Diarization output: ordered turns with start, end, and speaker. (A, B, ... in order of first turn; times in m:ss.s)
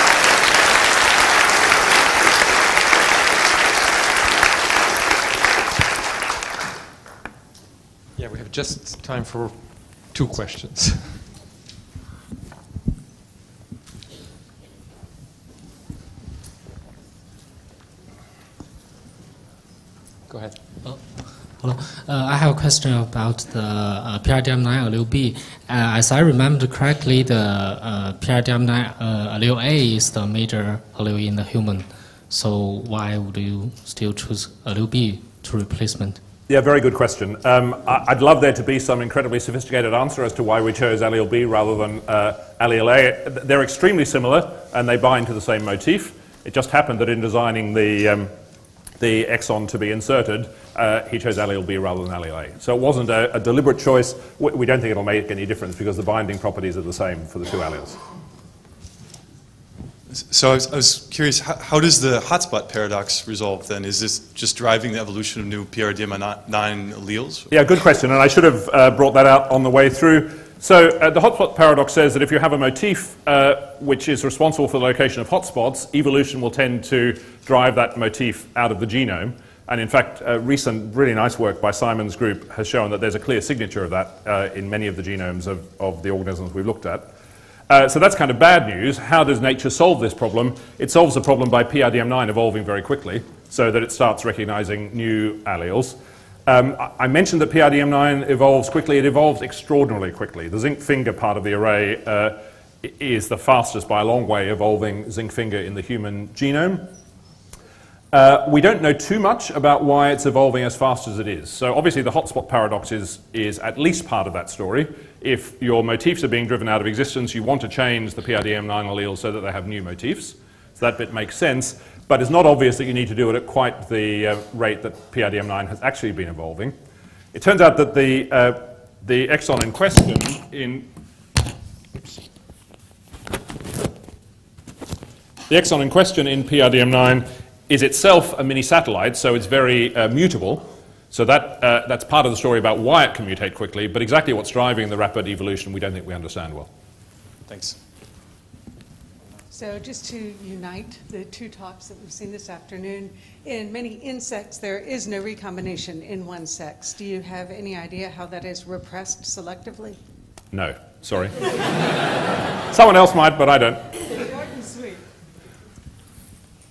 0:08.2-0:11.2 A
0:20.3-0:20.6 A
0:21.5-0:36.2 B
0:36.5-0:48.3 C
0:49.0-0:58.0 C
1:00.1-1:07.5 D
1:07.5-1:27.1 C
1:27.7-1:46.8 C
1:48.1-2:06.8 C
2:07.3-2:10.9 C
2:15.5-2:26.7 C
2:27.5-2:27.8 D
2:29.5-2:40.0 E
2:40.5-2:41.4 C
2:42.7-2:43.8 C
2:44.1-2:45.0 E